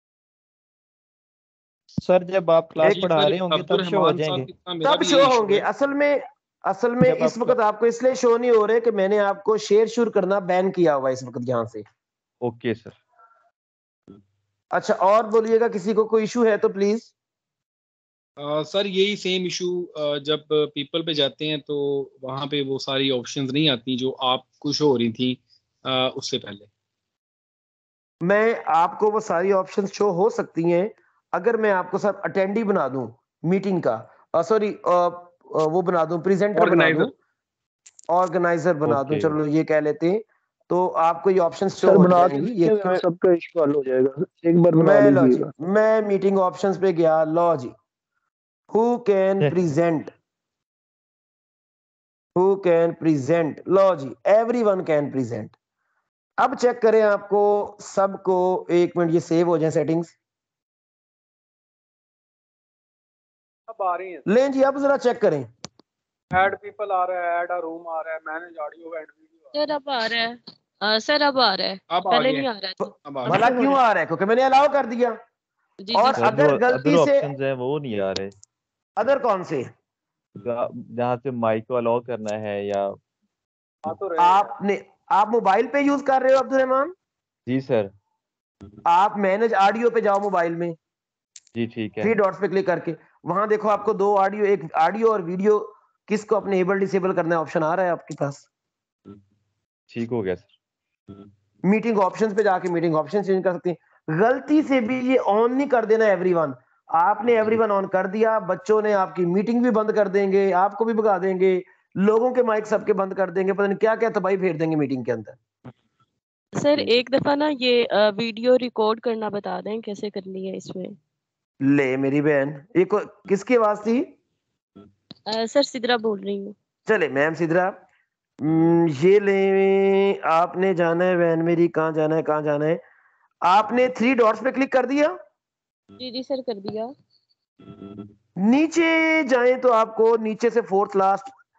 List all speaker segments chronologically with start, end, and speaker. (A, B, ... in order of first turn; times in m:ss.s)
0:02.0-0:04.5 A
0:02.8-0:05.7 B
0:04.8-0:11.8 C
0:07.0-0:07.6 A
0:12.4-0:13.0 D
0:14.7-0:17.1 C
0:18.4-0:26.7 B
0:28.2-0:37.1 C
0:36.5-0:37.1 B
0:38.1-0:43.0 C
0:38.8-0:39.3 D
0:41.8-0:45.5 E
0:44.8-0:47.7 C
0:48.7-0:50.1 C
0:52.4-0:55.5 C
0:56.4-1:00.1 C
1:03.7-1:04.2 F
1:04.3-1:05.5 C
1:06.3-1:09.5 F
1:09.5-1:13.7 G
1:11.9-1:13.5 B
1:13.2-1:15.2 C
1:15.8-1:16.4 G
1:15.9-1:17.3 C
1:16.2-1:18.3 D
1:19.0-1:19.7 C
1:20.4-1:23.0 D
1:23.8-1:24.5 F
1:24.2-1:26.9 C
1:27.5-1:27.9 D
1:28.8-1:30.8 C
1:31.5-1:32.2 D
1:32.0-1:38.5 C
1:39.9-1:40.5 D
1:41.6-1:55.4 C
1:56.6-2:01.0 G
2:01.6-2:04.1 C
2:05.3-2:06.5 G
2:06.9-2:07.8 C
2:08.4-2:12.8 C
2:13.4-2:15.2 C
2:16.0-2:16.9 G
2:18.4-2:21.3 C